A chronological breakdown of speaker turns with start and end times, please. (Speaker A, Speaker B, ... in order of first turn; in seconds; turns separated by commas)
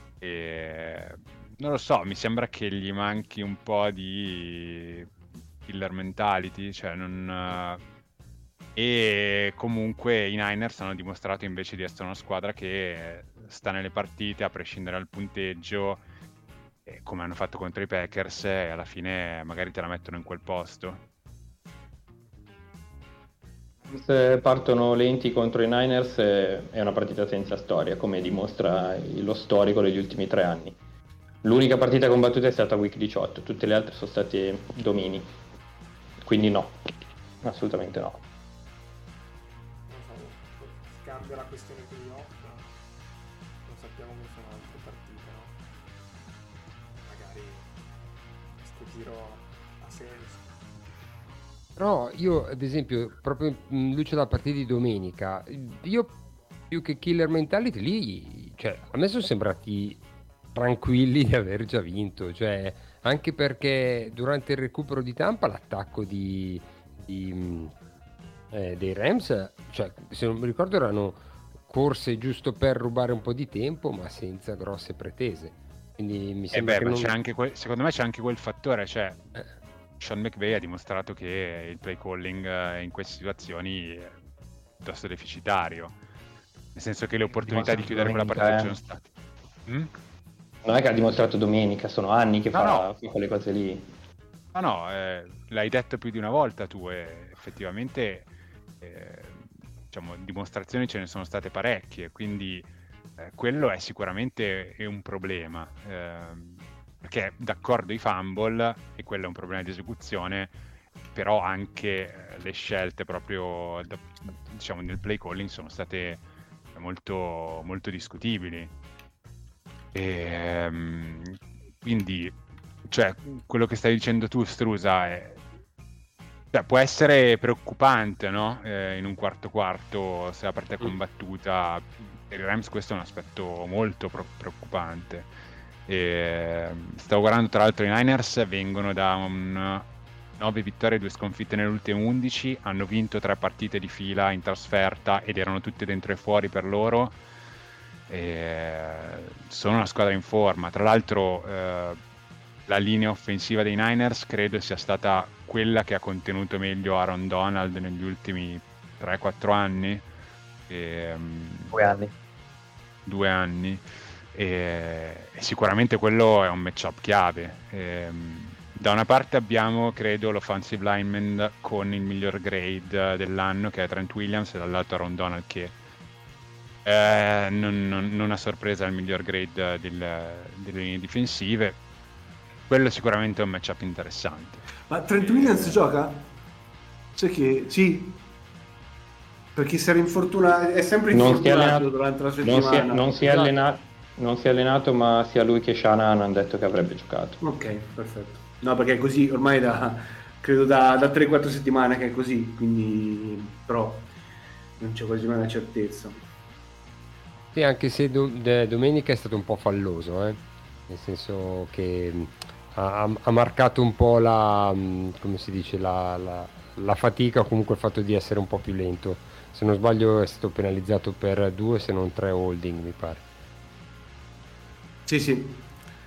Speaker A: 0.2-5.1, Speaker A: 5.7-7.8, Speaker A: 8.8-16.0, Speaker A: 16.9-21.0, Speaker B: 23.9-30.8, Speaker B: 31.4-35.3, Speaker B: 36.2-36.8, Speaker B: 37.4-38.2, Speaker C: 39.9-42.7, Speaker C: 43.6-45.5, Speaker C: 47.0-47.7, Speaker C: 48.6-50.5, Speaker D: 51.8-56.2, Speaker D: 56.7-60.0, Speaker D: 60.5-67.7, Speaker D: 68.5-77.1, Speaker A: 76.5-79.2, Speaker A: 80.0-84.2, Speaker A: 84.8-85.9, Speaker A: 86.7-89.0, Speaker B: 87.4-88.8, Speaker B: 90.6-93.8, Speaker A: 92.5-92.9, Speaker A: 94.5-98.3, Speaker A: 98.8-110.5, Speaker A: 111.1-116.2, Speaker A: 116.7-118.7, Speaker A: 119.9-122.3, Speaker A: 122.9-125.4, Speaker A: 126.5-135.3, Speaker A: 135.9-139.8, Speaker A: 140.4-147.2, Speaker A: 148.1-152.0, Speaker A: 152.7-160.1, Speaker A: 160.7-161.8, Speaker B: 161.7-162.1, Speaker A: 163.1-175.7, Speaker A: 176.8-181.8, Speaker A: 182.7-185.8, Speaker E: 184.9-186.2, Speaker E: 187.2-188.2, Speaker E: 189.5-193.5, Speaker B: 191.1-197.4, Speaker E: 197.4-204.1, Speaker E: 204.8-206.2, Speaker D: 207.5-223.2, Speaker E: 225.1-225.7